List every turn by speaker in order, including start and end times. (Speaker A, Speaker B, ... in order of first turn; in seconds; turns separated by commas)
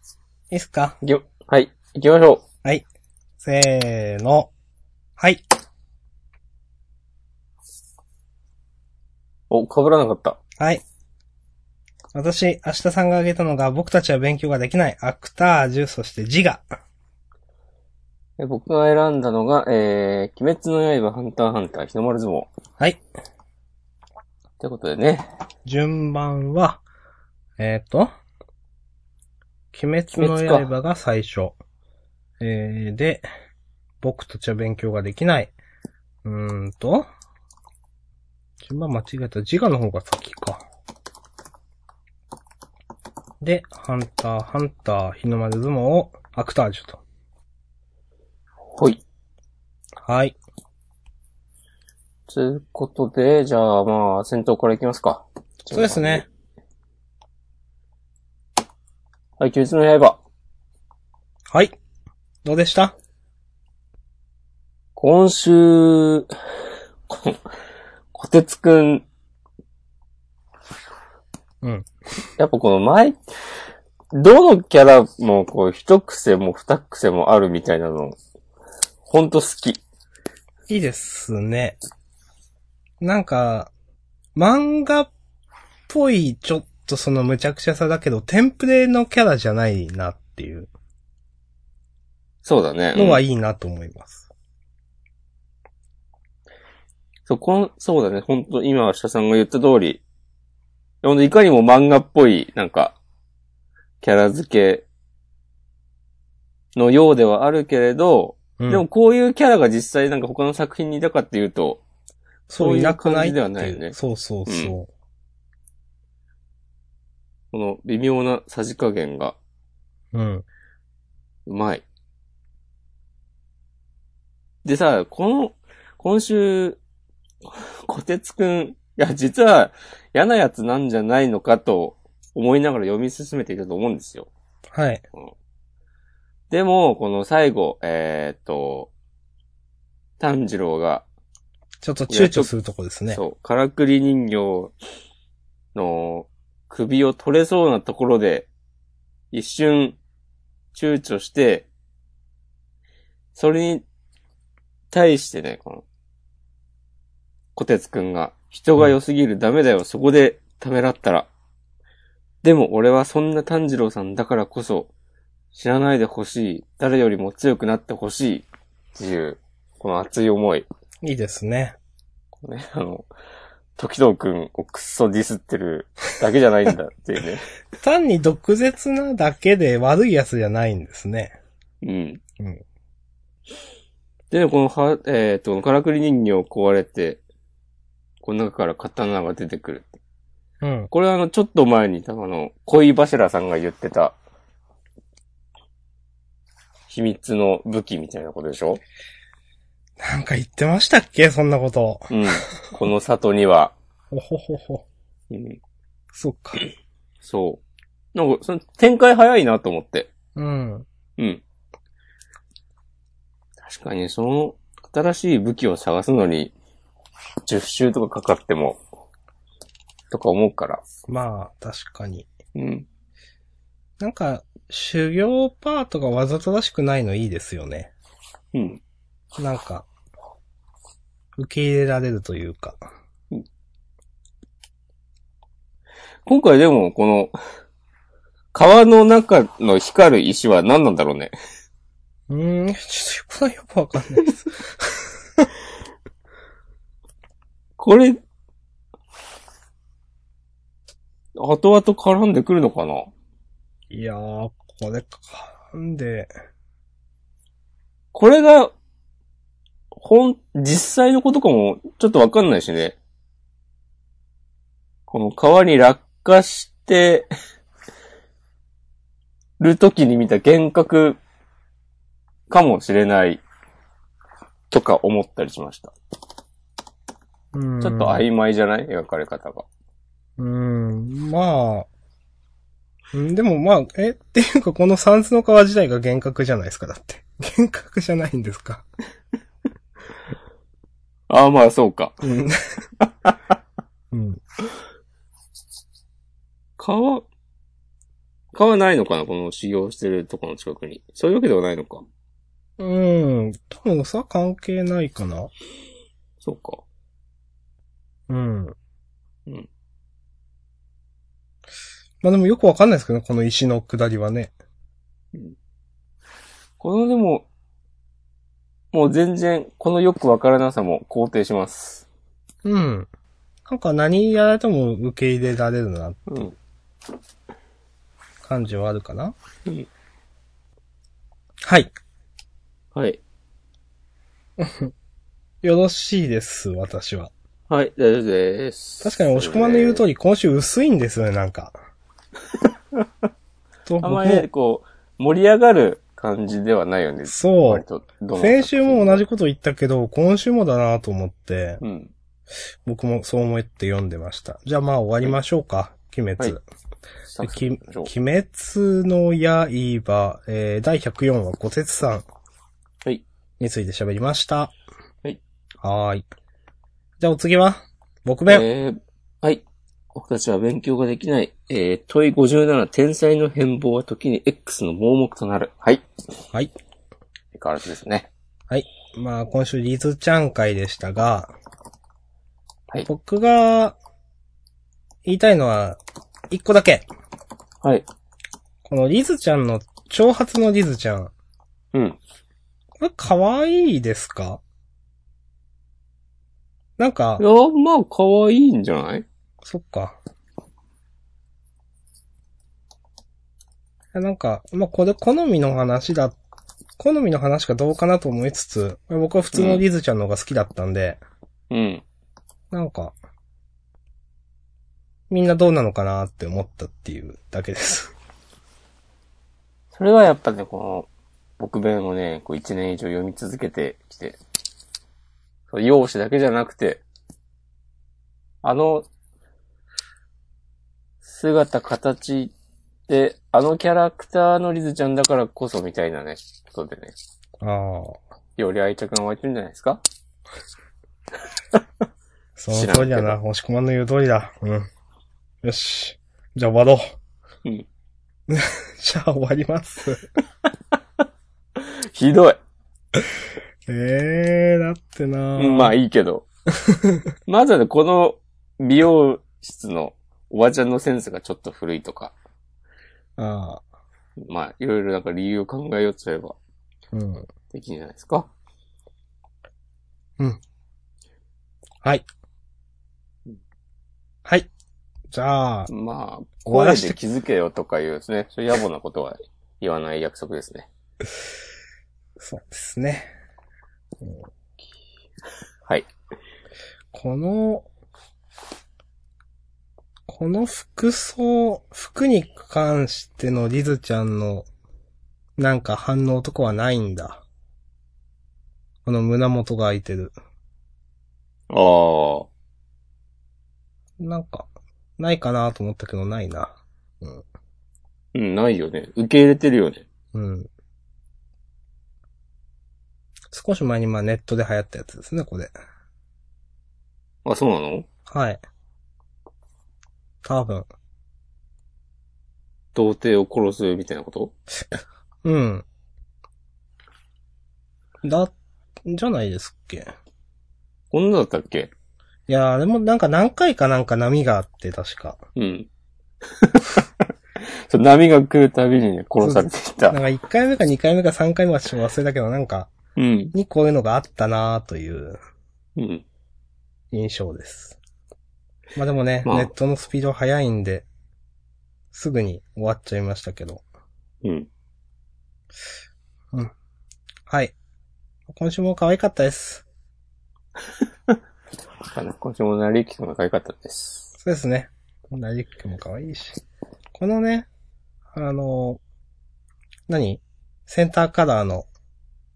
Speaker A: 0.5-1.0, Speaker B: 1.0-2.4, Speaker A: 3.4-4.5, Speaker A: 5.2-5.4, Speaker B: 9.5-10.4, Speaker A: 10.6-10.8, Speaker A: 12.1-16.6, Speaker B: 18.4-22.5, Speaker B: 24.6-25.3, Speaker A: 25.6-26.8, Speaker A: 27.6-28.1, Speaker A: 29.7-31.6, Speaker B: 30.2-30.6, Speaker A: 32.4-33.2, Speaker A: 34.0-35.5, Speaker A: 36.2-37.1, Speaker A: 38.6-40.6, Speaker A: 43.4-47.0, Speaker B: 48.7-49.0, Speaker A: 50.0-50.4, Speaker B: 52.3-56.2, Speaker A: 55.7-56.2, Speaker B: 59.4-60.2, Speaker A: 61.5-61.8, Speaker A: 62.4-62.9, Speaker B: 65.0-66.3, Speaker B: 67.1-67.4, Speaker B: 68.1-69.0, Speaker A: 71.6-71.9, Speaker B: 72.4-73.2, Speaker B: 74.1-78.2, Speaker B: 79.1-79.8, Speaker A: 80.7-81.8, Speaker A: 83.0-83.7, Speaker A: 84.3-85.1, Speaker A: 85.9-90.7, Speaker B: 92.4-93.2, Speaker A: 92.9-94.2, Speaker B: 97.3-100.0, Speaker B: 101.0-103.0, Speaker B: 104.0-104.8, Speaker B: 106.8-111.8, Speaker A: 112.5-114.9, Speaker B: 112.6-114.7, Speaker B: 117.5-119.3, Speaker A: 120.1-120.4, Speaker B: 121.5-121.8, Speaker B: 124.6-126.8, Speaker B: 127.5-134.3, Speaker A: 134.7-135.0, Speaker B: 136.5-138.9, Speaker B: 140.2-141.0, Speaker A: 141.8-143.2, Speaker B: 142.1-142.5, Speaker B: 143.1-144.7, Speaker B: 145.7-148.5, Speaker B: 149.3-150.0, Speaker B: 150.7-151.7, Speaker B: 153.3-153.8, Speaker B: 154.9-155.8, Speaker B: 157.6-161.3, Speaker B: 162.4-164.9, Speaker B: 165.5-170.7, Speaker A: 171.0-171.8, Speaker B: 172.4-173.1, Speaker B: 173.8-177.4, Speaker A: 177.8-181.3, Speaker B: 181.8-182.2, Speaker B: 184.3-187.2, Speaker B: 188.2-190.0, Speaker A: 190.6-190.9, Speaker B: 190.9-194.2, Speaker B: 196.9-198.8, Speaker A: 200.0-202.1, Speaker B: 202.1-203.7, Speaker A: 204.1-204.8, Speaker B: 205.3-205.6, Speaker A: 206.1-206.6, Speaker B: 207.2-207.6, Speaker B: 208.1-210.1, Speaker A: 210.3-210.8, Speaker B: 211.2-211.4, Speaker B: 213.6-216.5, Speaker B: 217.5-218.8, Speaker B: 220.1-220.8, Speaker A: 221.1-222.3, Speaker B: 222.5-222.9, Speaker A: 224.0-227.9, Speaker B: 228.5-228.8, Speaker A: 229.3-229.8, Speaker A: 231.4-232.8, Speaker B: 236.2-237.3, Speaker B: 238.5-241.3, Speaker A: 242.3-245.5, Speaker B: 247.8-248.2, Speaker B: 251.4-253.1, Speaker A: 253.9-256.3, Speaker B: 258.1-258.7, Speaker B: 259.9-263.0, Speaker B: 265.1-267.3, Speaker B: 269.6-271.2, Speaker B: 272.5-273.4, Speaker B: 274.7-275.9, Speaker A: 277.5-278.2, Speaker B: 277.8-279.6, Speaker A: 280.4-281.9, Speaker A: 283.1-288.8, Speaker B: 291.3-292.2, Speaker A: 292.2-292.6, Speaker B: 293.0-293.3, Speaker A: 294.1-294.4, Speaker B: 296.8-297.2, Speaker B: 298.5-302.0, Speaker A: 302.8-305.5, Speaker B: 306.4-306.8, Speaker A: 308.3-308.7, Speaker A: 312.2-314.5, Speaker B: 316.8-317.4, Speaker B: 318.9-322.1, Speaker A: 322.6-323.1, Speaker A: 323.6-326.4, Speaker B: 326.3-326.5, Speaker A: 328.4-329.3, Speaker A: 331.6-331.9, Speaker B: 332.9-333.2, Speaker A: 334.6-334.9, Speaker A: 335.6-337.3, Speaker B: 337.7-340.0, Speaker A: 339.0-341.8, Speaker A: 343.9-344.5, Speaker B: 344.0-349.2, Speaker A: 347.2-347.8, Speaker A: 348.4-351.8, Speaker B: 351.8-352.1, Speaker A: 352.8-356.6, Speaker B: 357.3-358.1, Speaker A: 357.4-362.2, Speaker A: 363.6-364.7, Speaker A: 365.8-366.2, Speaker A: 367.2-368.6, Speaker B: 368.5-369.6, Speaker B: 370.1-376.0, Speaker B: 377.5-378.3, Speaker A: 378.7-381.5, Speaker A: 383.1-383.9, Speaker A: 385.2-386.0, Speaker A: 386.5-387.1, Speaker A: 388.8-391.3, Speaker A: 393.0-394.6, Speaker A: 397.0-397.4, Speaker B: 397.4-399.2, Speaker A: 399.6-400.2, Speaker A: 404.1-406.4, Speaker A: 407.0-411.2, Speaker B: 409.5-409.8, Speaker B: 411.7-412.0, Speaker A: 412.7-413.1, Speaker A: 415.3-418.1, Speaker B: 419.9-421.1, Speaker B: 421.6-424.4, Speaker B: 425.7-427.0, Speaker B: 428.6-429.1, Speaker B: 431.2-432.5, Speaker B: 433.1-437.1, Speaker A: 437.6-438.2, Speaker B: 438.6-440.0, Speaker A: 442.6-444.9, Speaker B: 442.7-443.4, Speaker A: 445.6-447.0, Speaker A: 448.5-450.2, Speaker B: 451.8-452.6, Speaker A: 453.9-455.9, Speaker B: 455.6-456.4, Speaker A: 456.8-457.2, Speaker B: 457.5-462.3, Speaker A: 463.4-463.8, Speaker B: 464.4-466.6, Speaker A: 467.1-467.5, Speaker B: 467.7-468.5, Speaker A: 475.3-475.9, Speaker B: 475.9-480.9, Speaker A: 476.7-477.2, Speaker A: 482.4-483.3, Speaker A: 487.1-487.9, Speaker A: 490.3-494.7, Speaker A: 495.6-497.4, Speaker A: 499.0-500.3, Speaker B: 501.7-502.5, Speaker A: 504.2-507.4, Speaker B: 508.3-510.0, Speaker A: 510.3-510.7, Speaker A: 513.5-515.7, Speaker B: 517.4-518.1, Speaker A: 518.3-518.6, Speaker A: 520.4-520.9, Speaker B: 522.9-524.5, Speaker A: 525.4-525.8, Speaker A: 528.2-528.5, Speaker A: 529.0-530.1, Speaker B: 531.1-531.9, Speaker A: 532.5-535.4, Speaker B: 535.5-535.9, Speaker B: 536.5-540.2, Speaker A: 539.4-542.9, Speaker B: 543.2-543.5, Speaker A: 543.5-545.4, Speaker B: 546.0-546.2, Speaker A: 547.1-548.0, Speaker A: 549.0-551.0, Speaker B: 549.4-549.7, Speaker A: 552.1-553.8, Speaker A: 557.5-557.7, Speaker A: 558.5-559.8, Speaker B: 562.1-564.3, Speaker A: 564.4-566.6, Speaker A: 567.1-567.7, Speaker A: 568.3-569.0, Speaker A: 570.1-571.9